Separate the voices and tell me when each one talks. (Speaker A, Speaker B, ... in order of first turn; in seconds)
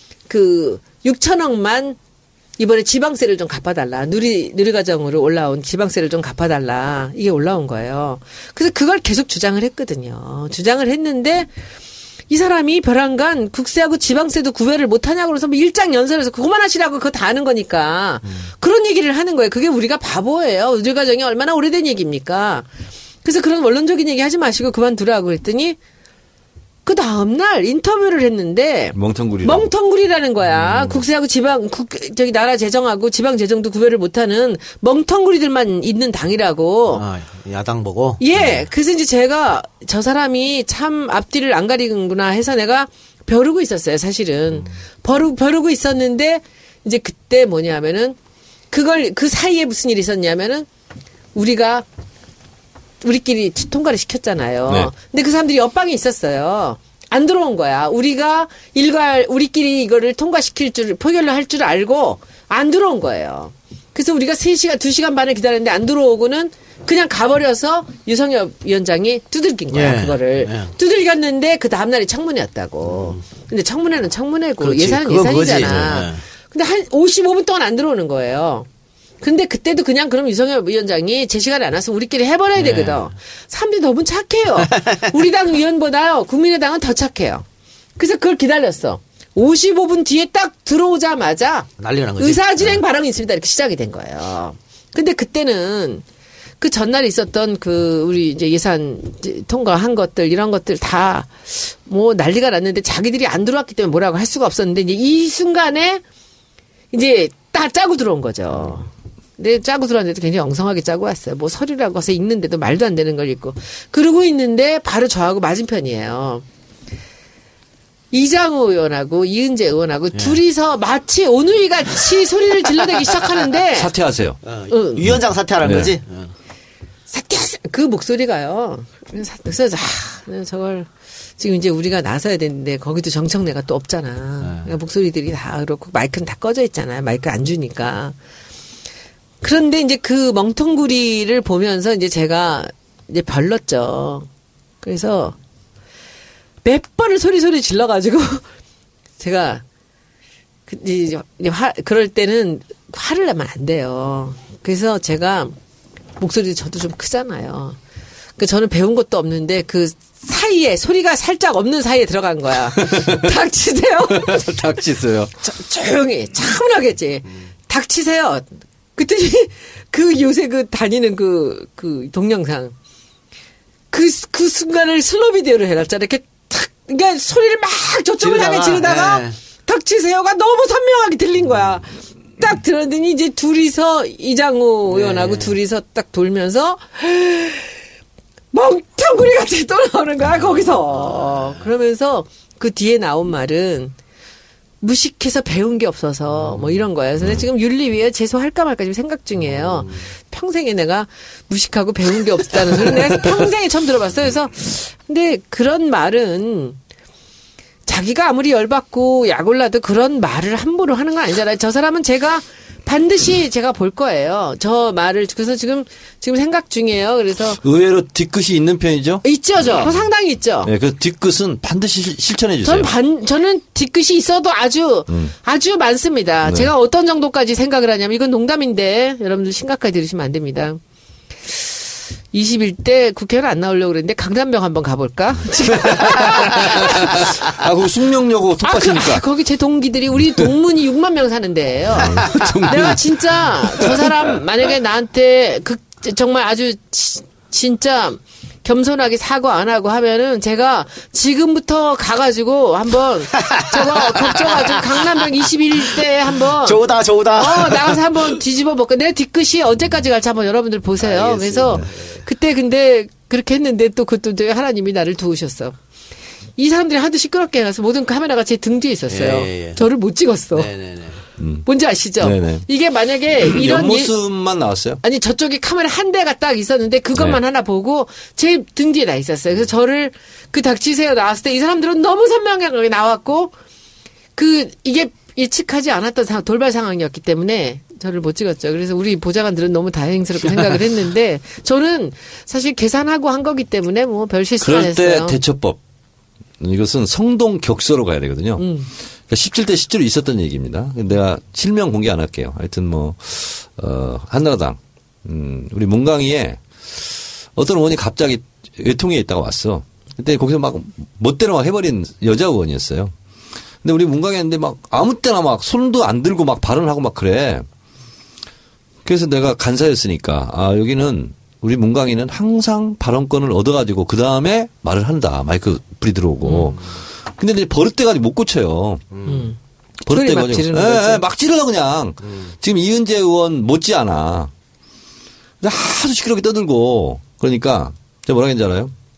Speaker A: 0.3-2.0, 2.6-11.5, 12.3-22.7, 23.2-25.8, 26.9-37.0, 38.2-48.2, 48.7-50.7, 51.4-51.9, 53.0-78.7, 79.2-87.5, 88.0-96.0, 96.6-106.0, 106.9-116.4, 118.1-123.9, 124.7-125.0, 127.1-138.2, 139.4-144.3, 144.8-145.4, 146.6-148.4, 149.2-149.6, 150.7-155.6, 156.2-157.8, 158.4-164.5, 165.4-172.7, 173.9-187.7, 188.5-193.9, 194.8-206.8, 207.9-217.6, 219.2-220.7, 222.6-230.8, 231.5-231.7, 232.3-237.3, 238.6-256.8, 257.4-265.8, 266.6-270.7, 271.7-274.1, 275.0-283.5, 284.4-295.4, 298.6-298.9, 326.4-326.8, 329.2-329.6, 330.1-331.2
Speaker B: 28.9-29.7, 54.7-54.9, 123.8-124.4, 125.0-125.9, 162.8-163.3, 164.1-165.3, 217.6-219.2, 220.6-222.9, 225.1-225.3, 226.4-226.7, 235.7-239.2, 242.0-244.2, 271.4-272.7, 273.4-275.0, 294.6-295.8, 296.6-298.7, 299.3-313.1, 313.8-317.7, 319.1-329.1, 330.0-334.5, 335.6-338.9
Speaker C: 30.5-31.1, 36.9-38.7, 69.7-70.7, 72.8-73.2, 74.6-76.2, 82.5-83.1, 91.8-92.8, 120.1-120.4, 124.5-126.3, 134.4-134.7, 178.2-179.4, 184.9-185.6, 190.9-191.6, 196.4-196.8, 199.4-200.0, 253.4-255.1, 256.0-258.3, 261.0-262.2, 269.1-269.8, 270.5-271.2, 329.1-329.5, 332.2-332.5